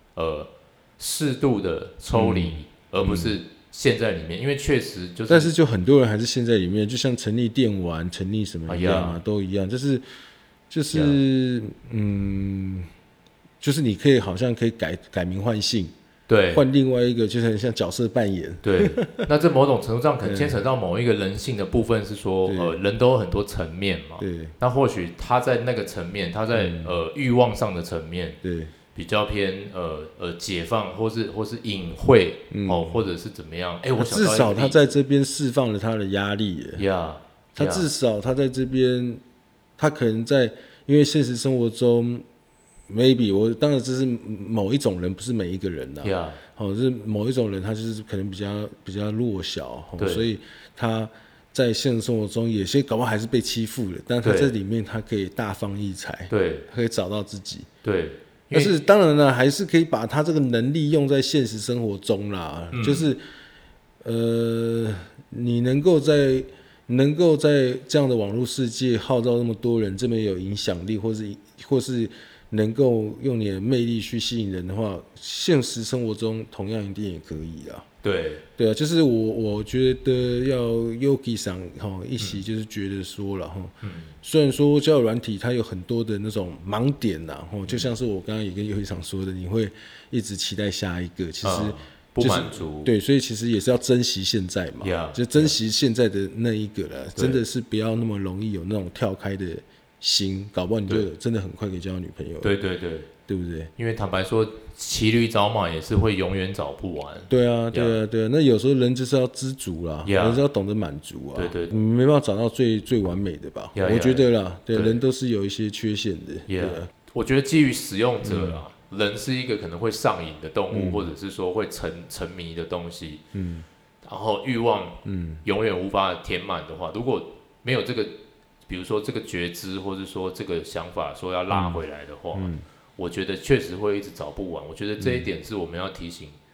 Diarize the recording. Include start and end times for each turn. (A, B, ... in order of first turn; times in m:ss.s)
0:00.2-0:05.5 A
0:02.1-0:03.4 B
0:05.3-0:10.0 B
0:08.7-0:09.2 A
0:10.7-0:12.9 B
0:10.9-0:11.2 A
0:13.6-0:15.9 B
0:16.3-0:16.6 A
0:16.5-0:19.3 B
0:18.6-0:28.4 A
0:20.2-0:20.6 B
0:22.5-0:22.8 B
0:24.2-0:24.5 B
0:26.5-0:26.9 B
0:28.4-0:28.7 B
0:28.9-0:34.9 A
0:32.5-0:33.0 B
0:34.0-0:36.8 B
0:36.8-0:37.9 A
0:37.6-0:39.2 B
0:39.8-0:42.2 B
0:42.9-0:57.7 B
0:46.0-0:46.4 A
0:50.0-0:50.3 A
0:54.2-0:54.5 A
0:56.3-0:56.7 A
0:57.8-0:58.7 A
0:58.5-1:03.2 B
1:02.7-1:03.0 A
1:04.0-1:17.9 B
1:18.0-1:18.4 A
1:18.6-1:42.5 B
1:23.8-1:24.1 A
1:31.4-1:32.9 A
1:34.8-1:35.6 A
1:37.2-1:37.4 A
1:42.4-1:43.1 A
1:43.3-1:43.7 B
1:43.8-1:48.0 A
1:47.3-1:56.9 B
1:50.0-1:50.4 A
1:51.4-1:51.7 A
1:53.8-1:55.0 A
1:56.5-2:03.2 A
1:58.2-1:58.6 B
2:00.7-2:01.1 B
2:03.3-2:03.7 B
2:04.0-2:08.1 A
2:05.0-2:05.4 B
2:08.7-2:16.4 A
2:11.5-2:11.8 B
2:12.3-2:12.6 B
2:15.0-2:15.3 B